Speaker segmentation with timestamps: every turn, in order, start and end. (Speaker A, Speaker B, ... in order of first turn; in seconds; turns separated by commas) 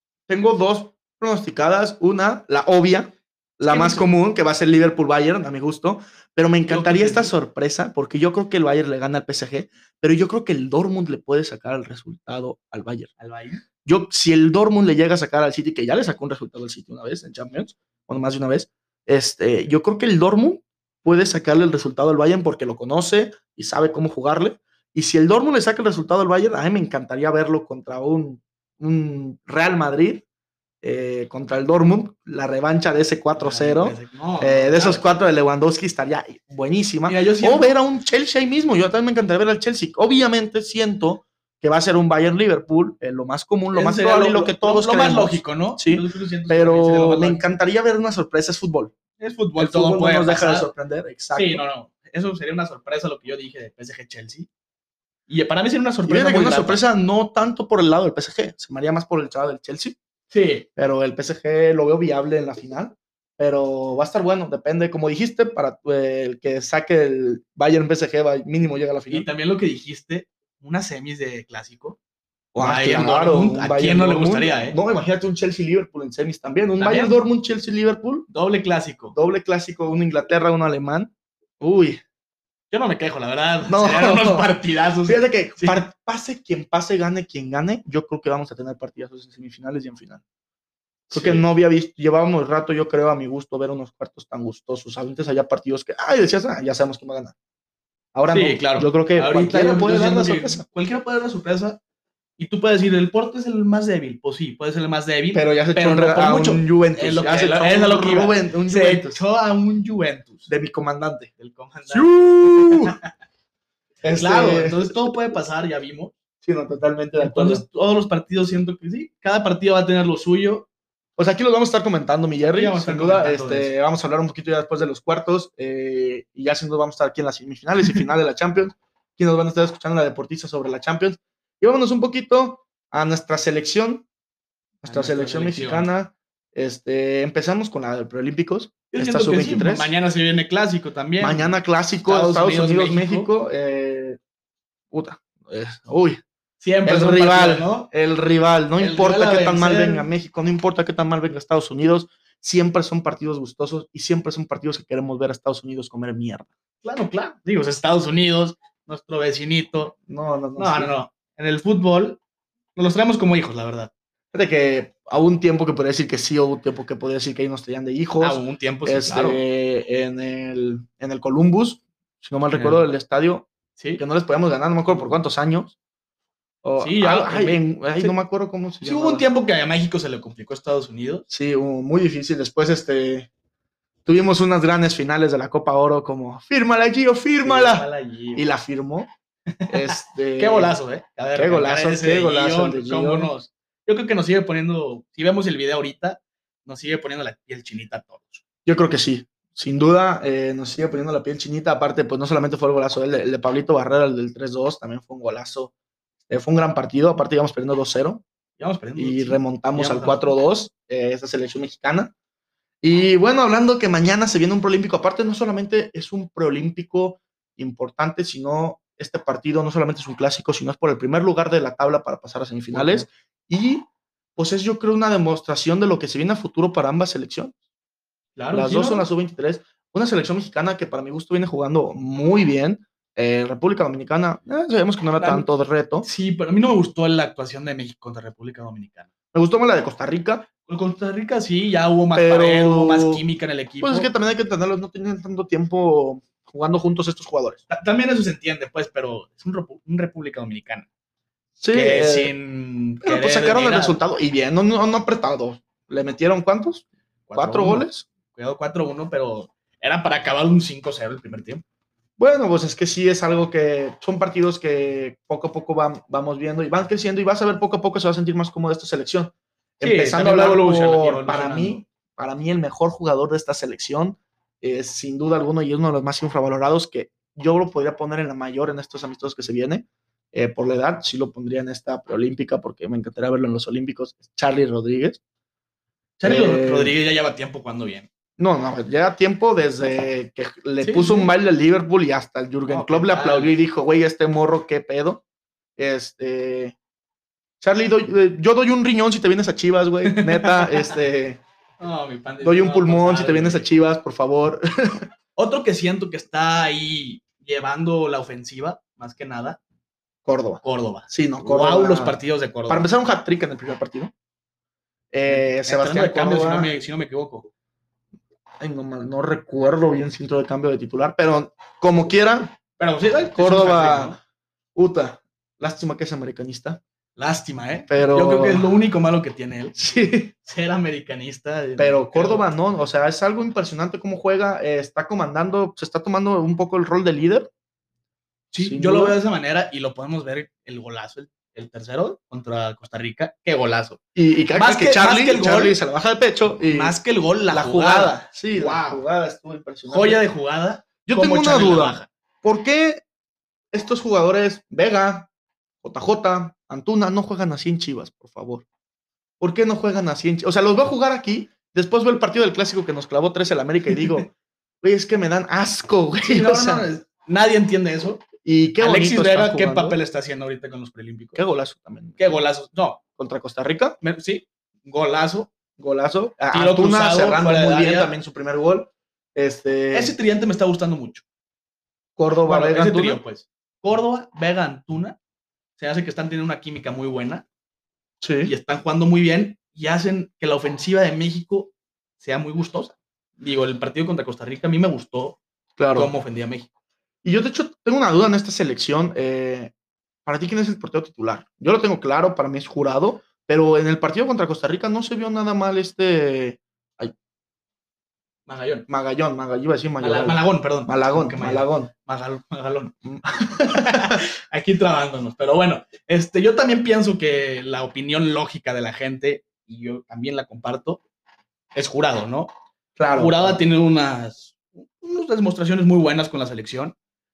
Speaker A: 0.3-13.1, Speaker B: 3.6-4.1, Speaker B: 6.7-7.3, Speaker B: 13.2-13.6, Speaker A: 13.8-30.2, Speaker A: 30.8-48.9, Speaker B: 33.4-35.2, Speaker B: 37.0-37.8, Speaker B: 43.7-47.4, Speaker B: 49.2-50.7, Speaker A: 49.6-51.6, Speaker B: 51.3-54.5, Speaker B: 55.3-56.8, Speaker A: 56.0-60.0, Speaker B: 60.3-60.6, Speaker A: 60.8-69.3, Speaker B: 69.1-72.0, Speaker A: 72.5-78.3, Speaker B: 72.6-74.8, Speaker B: 76.8-77.2, Speaker B: 78.3-79.2, Speaker A: 79.1-82.0, Speaker B: 82.7-85.8, Speaker A: 83.7-84.5, Speaker A: 85.0-90.2, Speaker B: 91.1-91.4, Speaker A: 91.1-97.3, Speaker A: 98.1-100.6, Speaker B: 98.3-101.8, Speaker B: 102.4-110.5, Speaker A: 105.3-109.2, Speaker A: 110.5-111.3, Speaker B: 111.4-113.1, Speaker A: 111.9-112.9, Speaker A: 114.0-115.0, Speaker B: 114.1-116.1, Speaker A: 116.4-117.6, Speaker B: 117.2-120.7, Speaker A: 121.2-134.1, Speaker B: 122.4-123.7, Speaker A: 134.8-139.9, Speaker B: 134.8-135.9, Speaker B: 138.9-141.5, Speaker A: 141.2-144.2, Speaker B: 142.0-143.3, Speaker A: 144.9-146.2, Speaker B: 146.6-147.9, Speaker A: 146.8-156.5, Speaker B: 148.8-150.1, Speaker B: 156.8-159.9, Speaker A: 160.1-160.9, Speaker B: 160.6-162.2, Speaker B: 162.8-163.9, Speaker A: 164.3-175.8, Speaker B: 168.2-169.4, Speaker B: 172.5-172.8, Speaker B: 173.8-174.0, Speaker A: 176.6-179.2, Speaker B: 176.8-178.2, Speaker B: 178.8-181.2, Speaker A: 181.3-183.3, Speaker A: 184.0-189.1, Speaker B: 187.4-188.5, Speaker B: 189.5-198.4, Speaker A: 189.7-190.7, Speaker A: 191.3-193.3, Speaker A: 198.7-205.7, Speaker A: 206.3-208.2, Speaker B: 208.6-210.3, Speaker A: 209.0-212.1, Speaker A: 212.8-223.8, Speaker B: 222.7-223.1, Speaker A: 224.4-227.5, Speaker B: 228.3-229.1, Speaker A: 228.5-236.1, Speaker B: 235.2-235.5, Speaker B: 236.0-239.1, Speaker A: 239.3-240.5, Speaker B: 240.7-244.1, Speaker A: 242.1-243.2, Speaker A: 243.8-247.6, Speaker B: 247.7-250.9, Speaker A: 251.6-252.3, Speaker B: 251.7-254.0, Speaker A: 253.0-258.1, Speaker B: 257.3-261.6, Speaker A: 262.2-285.2, Speaker B: 269.8-271.8, Speaker B: 286.2-288.1, Speaker A: 286.2-286.9, Speaker A: 288.4-295.2, Speaker B: 290.8-291.3, Speaker B: 292.7-293.5, Speaker A: 295.8-296.7, Speaker A: 297.6-301.4, Speaker B: 300.1-300.9, Speaker B: 301.8-303.7, Speaker A: 302.4-305.1, Speaker B: 305.4-309.6, Speaker A: 310.2-314.1, Speaker B: 310.6-312.9, Speaker A: 315.1-316.7, Speaker B: 315.2-317.5, Speaker A: 318.6-322.6, Speaker B: 322.8-324.2, Speaker A: 323.4-324.2, Speaker A: 324.7-326.8, Speaker B: 327.2-329.8, Speaker A: 327.9-328.7, Speaker A: 329.8-330.3, Speaker B: 330.4-332.4, Speaker A: 331.8-337.5, Speaker B: 338.5-344.0, Speaker A: 338.6-339.2, Speaker A: 344.1-346.9, Speaker B: 344.5-345.8, Speaker B: 346.7-349.0, Speaker A: 347.5-350.2, Speaker B: 349.9-352.1, Speaker A: 351.1-353.0, Speaker A: 353.7-355.3, Speaker A: 355.8-358.6, Speaker A: 359.4-366.9, Speaker B: 366.2-368.2, Speaker A: 368.4-370.0, Speaker B: 368.8-371.4, Speaker A: 371.3-372.4, Speaker B: 372.2-373.0, Speaker A: 373.2-374.0, Speaker B: 374.0-375.5, Speaker A: 375.8-380.1, Speaker B: 376.5-378.1, Speaker B: 379.9-381.2, Speaker A: 382.2-383.2, Speaker B: 382.4-385.2, Speaker B: 385.8-387.4, Speaker A: 388.2-388.5, Speaker B: 388.4-395.4, Speaker A: 395.8-396.1, Speaker B: 395.9-396.7, Speaker A: 397.2-399.7, Speaker A: 400.2-407.1, Speaker B: 408.5-408.9, Speaker A: 408.9-411.9, Speaker B: 410.0-412.9, Speaker A: 413.1-414.2, Speaker B: 413.5-421.0, Speaker B: 421.7-422.5, Speaker A: 423.0-423.6, Speaker B: 423.1-426.9